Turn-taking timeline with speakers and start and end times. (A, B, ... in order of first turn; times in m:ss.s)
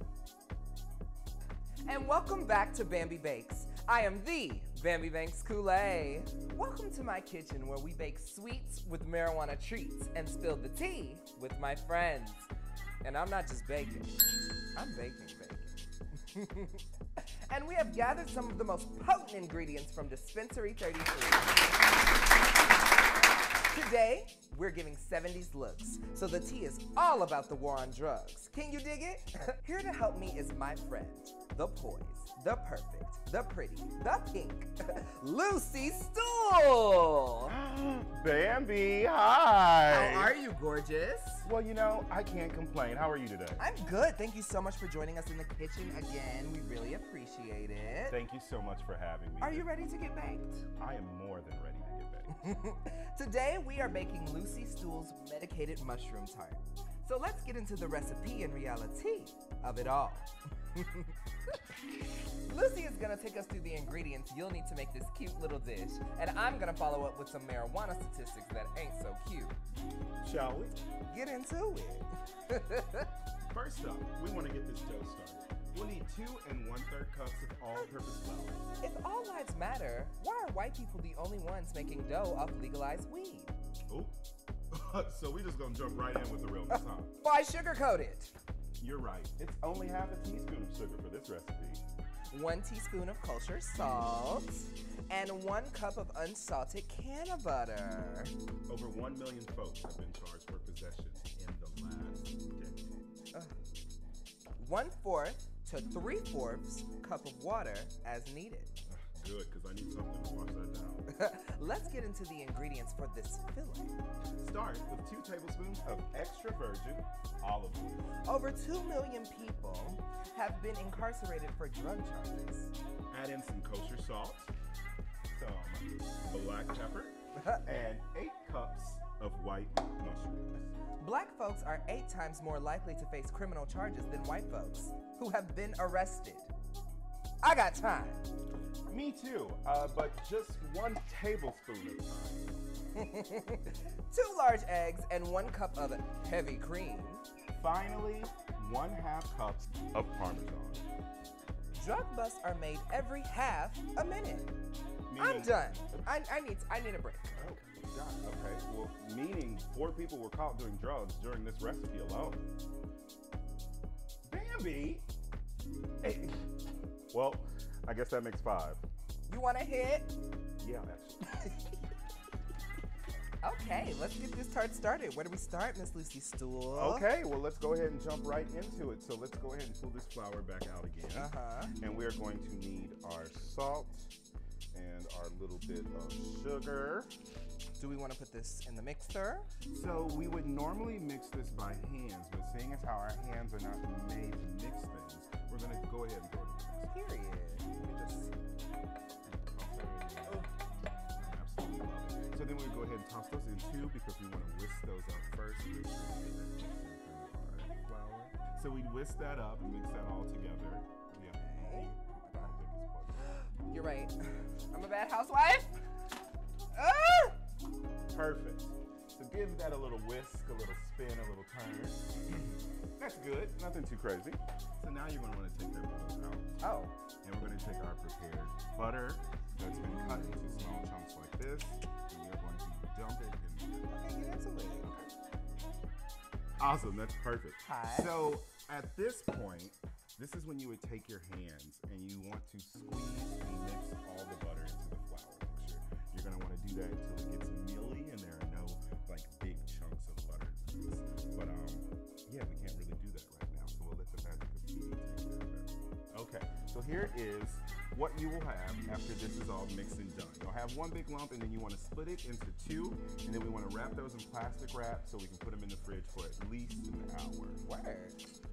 0:01.8-0:12.5 A
0:13.0-0:14.2 A
0:14.8-0:21.8 A
0:23.7-0:37.6 A
0:37.4-0:40.4 B
0:39.9-0:41.5 A
0:41.4-0:43.6 B
0:43.6-0:48.2 A
0:48.1-0:49.7 B
0:49.4-0:50.7 A
0:50.8-0:52.4 B
0:52.3-1:01.6 A
1:02.4-1:09.6 A
1:10.2-1:10.8 B
1:11.1-1:13.1 A
1:13.4-1:18.6 B
1:18.8-1:23.5 A
1:23.9-1:24.1 B
1:24.7-1:27.1 B
1:26.7-1:28.3 A
1:28.8-1:31.8 B
1:32.3-1:38.3 A
1:38.7-1:42.9 B
1:44.6-1:48.7 A
1:48.8-1:51.0 B
1:51.1-1:54.0 A
1:54.4-1:58.2 B
1:58.2-2:02.7 A
2:03.1-2:04.5 B
2:05.3-2:10.7 B
2:07.4-2:07.8 A
2:11.0-2:16.5 A
2:17.4-2:18.2 A
2:18.9-2:22.6 B
2:23.0-2:27.2 A
2:27.5-2:30.8 B
2:31.7-2:34.5 A
2:35.1-2:35.8 B
2:35.2-2:37.5 A
2:37.3-2:42.4 B
2:44.2-2:45.0 B
2:46.0-2:48.8 B
2:49.3-2:50.1 A
2:50.6-2:51.7 B
2:53.4-2:57.1 A
2:56.7-3:04.1 B
3:01.1-3:01.7 A
3:04.7-3:07.1 B
3:07.8-3:09.5 A
3:09.7-3:16.9 B
3:16.9-3:18.3 A
3:19.2-3:20.5 B
3:20.2-3:21.4 A
3:21.2-3:33.4 B
3:31.2-3:32.6 A
3:33.3-3:35.7 A
3:36.7-3:37.4 A
3:38.1-3:53.9 B
3:46.6-3:46.9 A
3:49.7-3:50.9 A
3:53.9-3:54.9 A
3:54.8-3:55.1 B
3:56.6-4:27.6 B
3:57.6-3:58.2 A
4:27.6-4:28.3 A